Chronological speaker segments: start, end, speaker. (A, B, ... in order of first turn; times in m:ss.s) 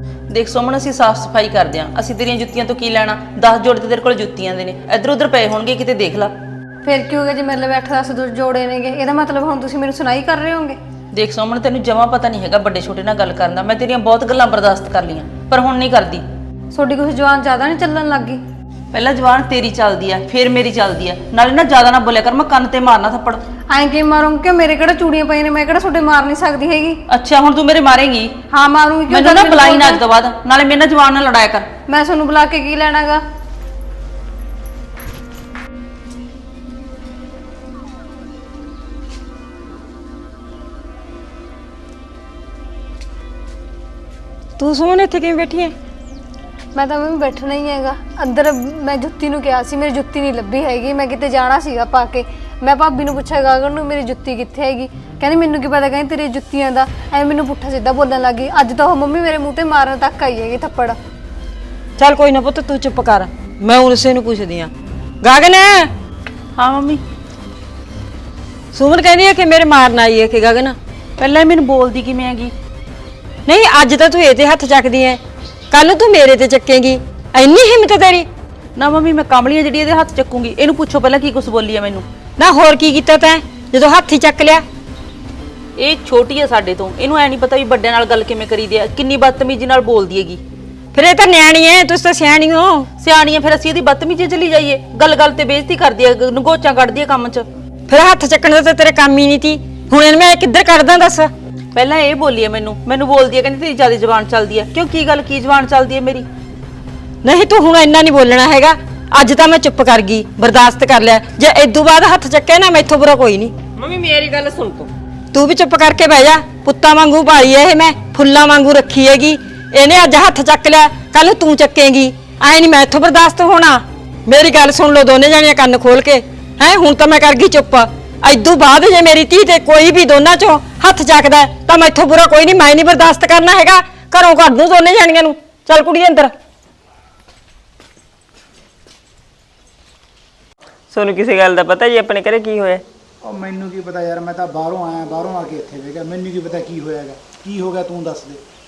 0:00.3-0:06.3 A
0:06.8-0:10.8 B
0:11.1-0:16.2 A
0:16.7-0:18.4 B
0:18.9-0:23.4 A
0:23.7-0:27.0 B
0:27.1-0:28.3 A
0:28.5-0:30.0 B
0:29.1-0:31.7 A
0:31.9-0:33.2 B
0:44.6-0:45.7 C
0:46.8-1:01.0 B
1:02.0-1:05.9 C
1:06.6-1:07.0 A
1:08.7-1:10.8 C
1:11.2-1:12.5 A
1:13.5-1:18.3 C
1:18.8-1:22.0 A
1:22.4-1:24.6 C
1:25.8-1:30.4 A
1:30.9-1:32.9 C
1:33.0-1:37.5 A
1:37.9-1:41.3 C
1:41.8-1:46.3 A
1:47.2-1:53.6 C
1:53.8-1:54.9 D
1:55.3-2:16.3 C
2:20.9-2:22.8 D
2:23.2-2:28.4 E